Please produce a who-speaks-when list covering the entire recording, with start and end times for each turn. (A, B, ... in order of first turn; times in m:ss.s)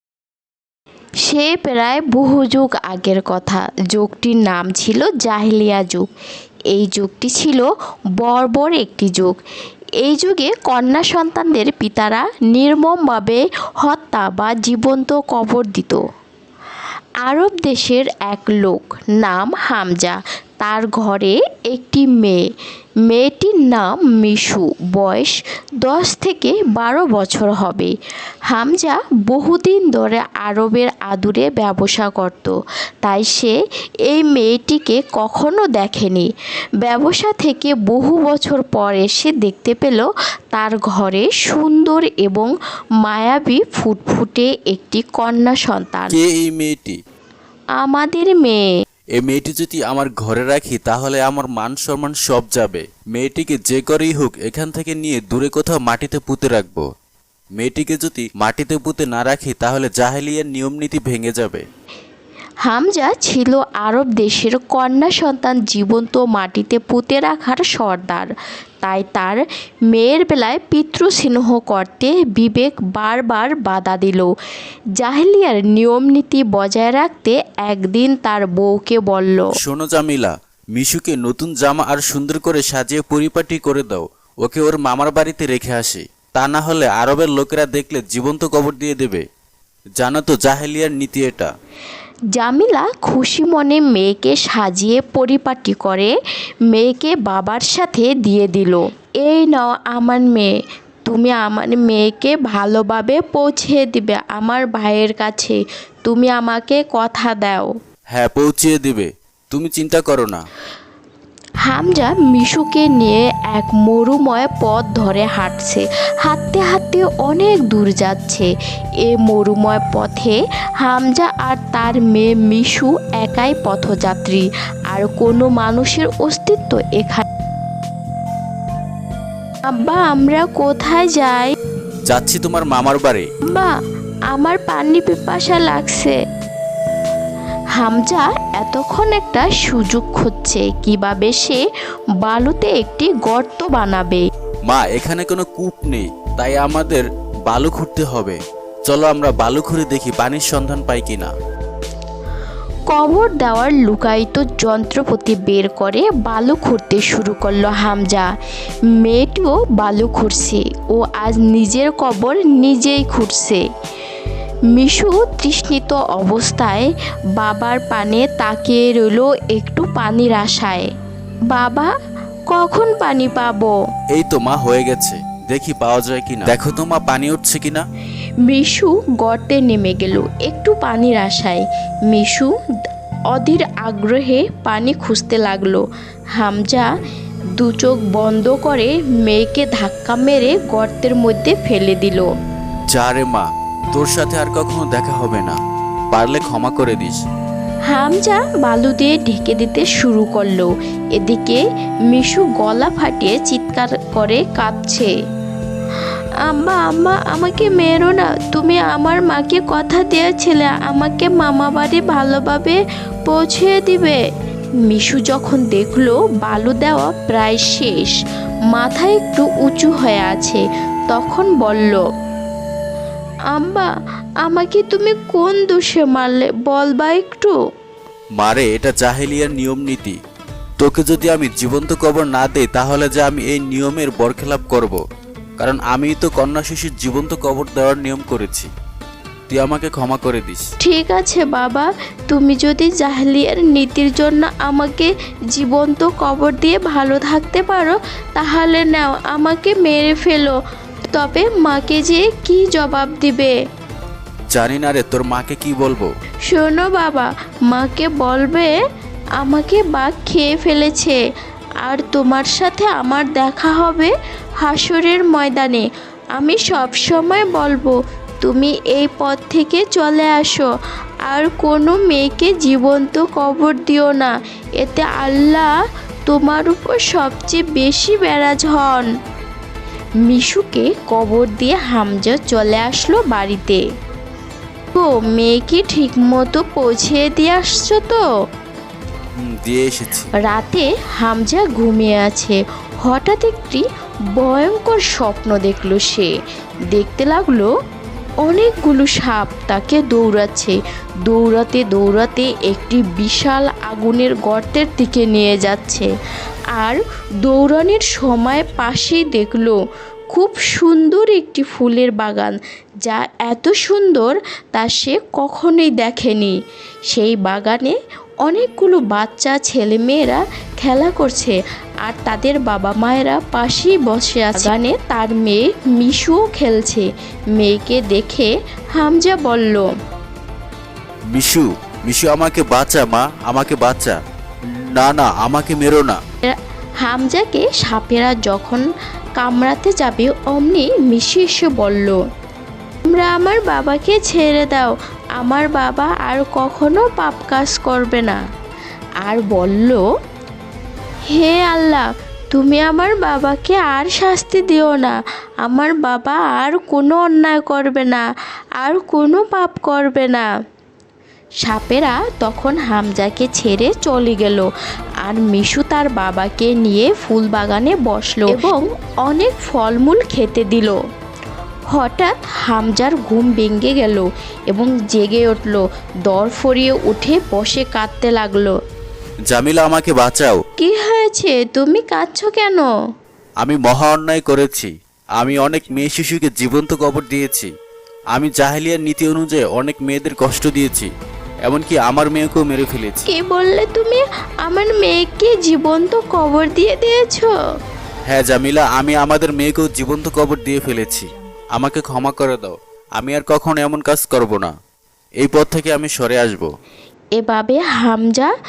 0:01.2-0:06.1 A
0:06.7-0:07.7 A
0:08.2-0:09.4 A
0:10.0-0:16.0 A
0:17.2-0:22.4 A
0:23.1-0:27.9 A
0:28.5-0:33.6 A
0:34.1-0:36.3 A
0:36.8-0:42.5 A
0:43.0-0:46.2 A
0:46.1-0:47.0 B
0:47.8-0:48.7 A
0:49.2-0:56.9 B
0:57.6-1:01.6 B
1:02.6-1:08.3 A
1:08.8-1:14.3 A
1:15.0-1:19.5 A
1:19.6-1:29.2 B
1:30.0-1:31.5 B
1:32.3-1:36.1 A
1:36.7-1:40.5 A
1:41.1-1:47.7 A
1:48.1-1:50.4 B
1:51.7-1:58.5 A
1:59.0-2:07.2 A
2:09.6-2:11.5 A
2:12.1-2:13.3 B
2:14.3-2:16.2 A
2:17.8-2:21.6 A
2:22.2-2:24.3 A
2:24.7-2:31.3 B
2:32.9-2:38.3 A
2:39.0-2:43.6 A
2:44.7-2:50.9 A
2:51.5-2:51.9 A
2:52.5-2:53.8 A
2:54.1-2:57.9 B
2:58.5-3:02.5 A
3:03.3-3:05.8 A
3:06.4-3:06.9 A
3:07.6-3:12.3 A
3:12.9-3:15.6 B
3:16.1-3:17.2 B
3:17.9-3:25.1 A
3:26.4-3:34.2 A
3:34.9-3:38.2 A
3:38.7-3:42.0 A
3:43.5-3:43.9 A
3:44.4-3:47.6 A
3:48.4-3:50.2 B
3:50.8-3:55.0 B
3:55.6-3:58.7 B
3:59.5-4:00.6 B
4:00.8-4:10.6 A
4:11.1-4:13.5 A
4:14.5-4:16.1 B
4:16.5-4:18.7 A
4:19.4-4:21.2 A
4:21.8-4:30.7 A
4:31.3-4:35.7 A
4:36.3-4:39.1 A
4:40.2-4:43.8 A
4:44.9-4:48.2 A
4:49.4-4:50.3 B
4:50.4-4:56.3 A
4:56.9-4:57.7 A
4:58.4-5:06.1 A
5:06.8-5:09.8 A
5:10.3-5:16.6 A
5:17.1-5:29.9 A
5:31.3-5:34.2 B
5:34.8-5:36.2 B
5:36.4-5:38.8 A
5:39.4-5:42.2 A
5:43.1-5:48.4 A
5:49.2-5:50.0 A
5:51.3-5:58.2 A
5:58.8-6:00.5 A
6:01.6-6:04.7 A
6:05.2-6:11.0 A
6:11.9-6:18.8 A
6:19.5-6:20.6 B
6:20.8-6:22.9 A
6:23.6-6:27.7 B
6:28.3-6:31.1 B
6:31.6-6:33.3 B
6:33.3-6:37.5 A
6:38.3-6:44.7 B
6:45.4-6:46.7 B
6:47.4-6:48.5 A